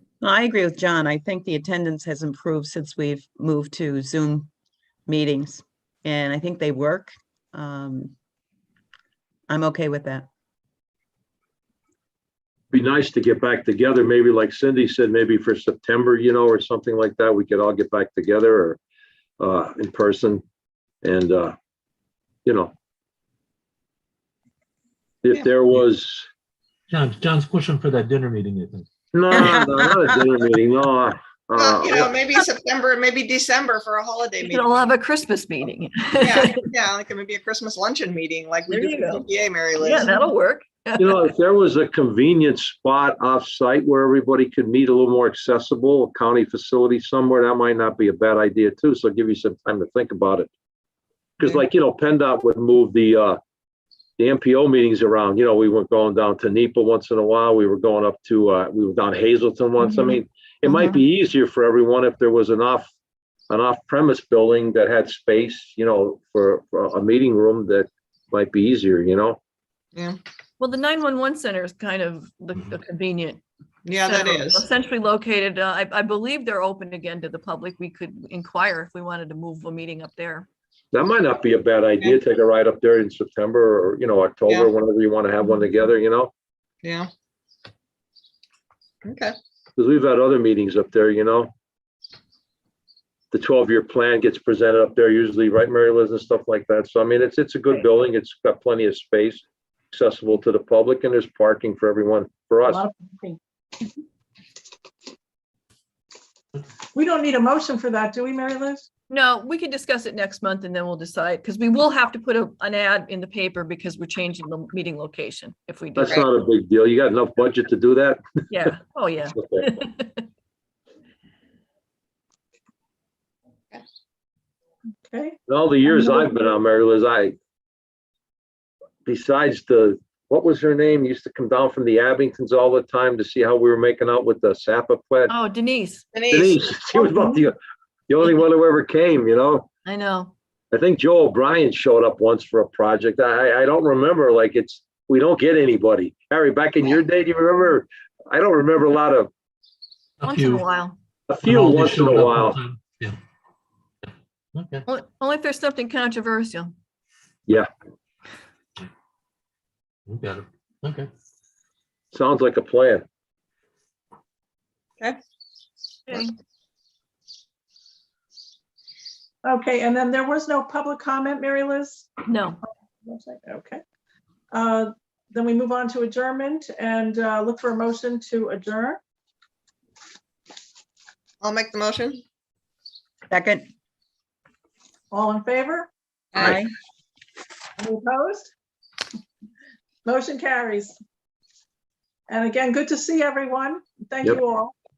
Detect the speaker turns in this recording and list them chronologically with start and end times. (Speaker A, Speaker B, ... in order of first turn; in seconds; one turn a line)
Speaker A: 0.2-4.5
Speaker A: 5.1-8.1
Speaker A: 9.5-10.3
Speaker B: 12.7-18.8
Speaker B: 19.4-20.4
Speaker B: 21.0-21.5
Speaker B: 22.4-22.7
Speaker B: 25.2-26.3
Speaker C: 26.9-29.5
Speaker B: 29.1-32.1
Speaker A: 29.3-30.0
Speaker D: 31.5-34.9
Speaker E: 34.4-36.6
Speaker D: 36.2-40.2
Speaker E: 38.7-39.2
Speaker E: 39.8-41.3
Speaker B: 41.0-50.5
Speaker B: 51.4-53.4
Speaker B: 54.2-62.9
Speaker B: 63.5-69.4
Speaker E: 70.6-73.4
Speaker D: 73.8-74.7
Speaker E: 74.0-80.5
Speaker B: 80.9-86.3
Speaker D: 86.8-87.1
Speaker D: 89.0-89.3
Speaker B: 89.8-91.5
Speaker B: 93.3-102.8
Speaker F: 102.7-103.4
Speaker F: 106.9-108.9
Speaker E: 109.1-116.2
Speaker B: 116.0-118.2
Speaker E: 118.5-120.2
Speaker B: 119.3-119.7
Speaker F: 125.0-126.3
Speaker B: 125.5-127.3
Speaker B: 129.0-135.3
Speaker E: 135.3-136.0
Speaker D: 136.1-136.6
Speaker B: 136.3-137.6
Speaker B: 138.1-139.7
Speaker E: 139.8-140.3
Speaker B: 140.7-149.3
Speaker C: 150.2-150.7
Speaker E: 150.2-150.9
Speaker B: 151.3-152.6
Speaker C: 151.4-153.2
Speaker C: 154.5-154.8
Speaker E: 154.9-156.7
Speaker C: 160.1-161.1
Speaker B: 162.1-163.0
Speaker E: 166.1-166.3
Speaker F: 169.4-172.1
Speaker E: 172.3-172.6
Speaker F: 173.0-173.8
Speaker F: 174.5-179.0
Speaker D: 181.4-182.2
Speaker A: 183.3-183.6
Speaker F: 185.1-185.9
Speaker D: 186.3-186.6
Speaker A: 186.4-186.7
Speaker F: 187.8-188.5
Speaker F: 190.0-191.0
Speaker F: 192.3-194.7